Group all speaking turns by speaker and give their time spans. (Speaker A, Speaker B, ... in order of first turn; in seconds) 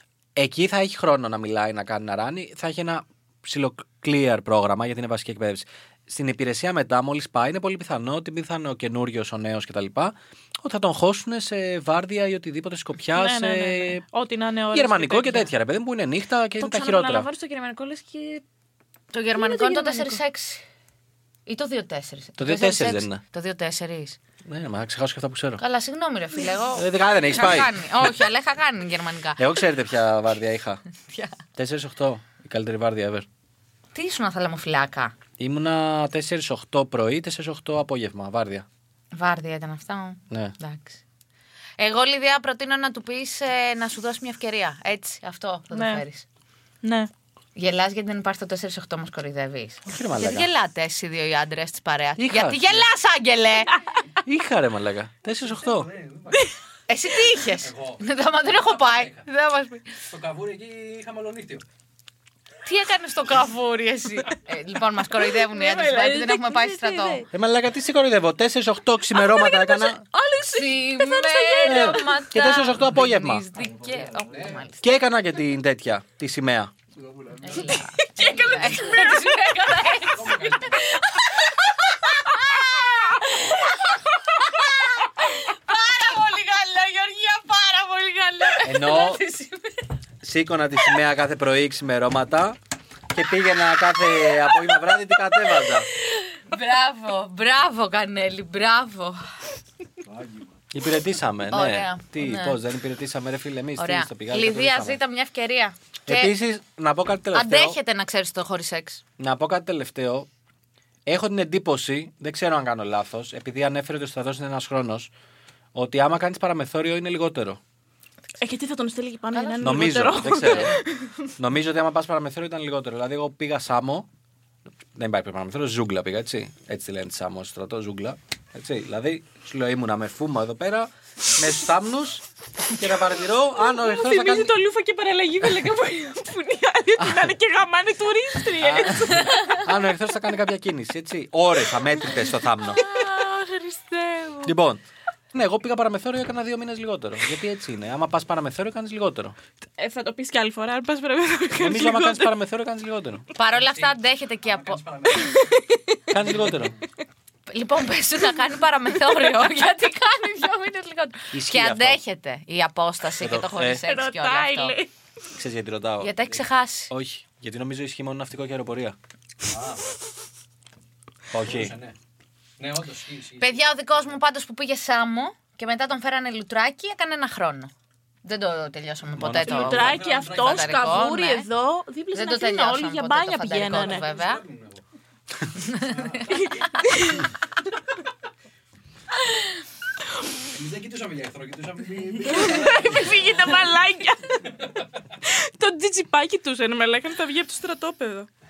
Speaker A: 0.4-14.0, 14.7-17.3, 22.4-23.2, 24.4-25.6, 26.8-28.1, 29.4-30.8, 31.6-33.3, 35.4-38.7, 49.9-50.5, 52.2-52.9, 54.2-55.9, 67.3-70.0, 71.7-73.4, 74.8-76.7, 88.6-89.2, 90.2-92.6, 93.1-95.9, 100.7-105.0, 106.1-107.8, 109.2-110.3, 111.1-115.1, 115.8-117.6, 119.6-120.8, 121.4-124.1, 125.0-134.5, 137.0-137.3, 138.6-142.8, 144.4-149.4, 151.6-153.2, 156.1-156.8, 161.3-162.0, 163.2-163.8, 165.3-166.1, 166.9-169.0, 171.3-171.8, 179.2-179.8
Speaker B: 13.1-15.5, 16.6-18.4, 19.3-20.2, 45.7-46.0, 46.8-47.1, 65.3-67.3, 69.1-72.2, 77.5-79.6, 118.4-121.3, 133.6-139.7, 142.6-144.5, 149.8-152.3, 155.2-155.9, 163.7-164.9, 179.4-184.1, 186.3-187.3, 192.3-194.6, 195.2-198.3
Speaker C: 19.1-20.6, 21.5-24.2, 25.6-29.6, 33.9-35.1, 39.1-41.0, 41.8-46.3, 47.6-53.8, 56.9-59.8, 62.6-67.2, 70.4-74.9, 77.4-89.9, 93.9-99.2, 101.5-102.6, 103.8-106.3, 107.3-109.0, 119.3-119.8, 153.3-154.9, 157.5-164.8, 166.0-166.9, 173.4-177.7, 178.2-181.5, 182.1-184.4, 185.6-186.5
Speaker D: 55.5-56.5, 57.6-58.0, 58.6-59.2, 60.1-61.6, 73.6-74.7, 77.0-77.8, 80.1-80.9, 153.4-155.5, 156.4-156.7, 169.4-169.9, 171.4-172.0, 172.6-174.1, 179.5-181.0, 183.9-184.8, 185.8-186.4, 190.5-193.3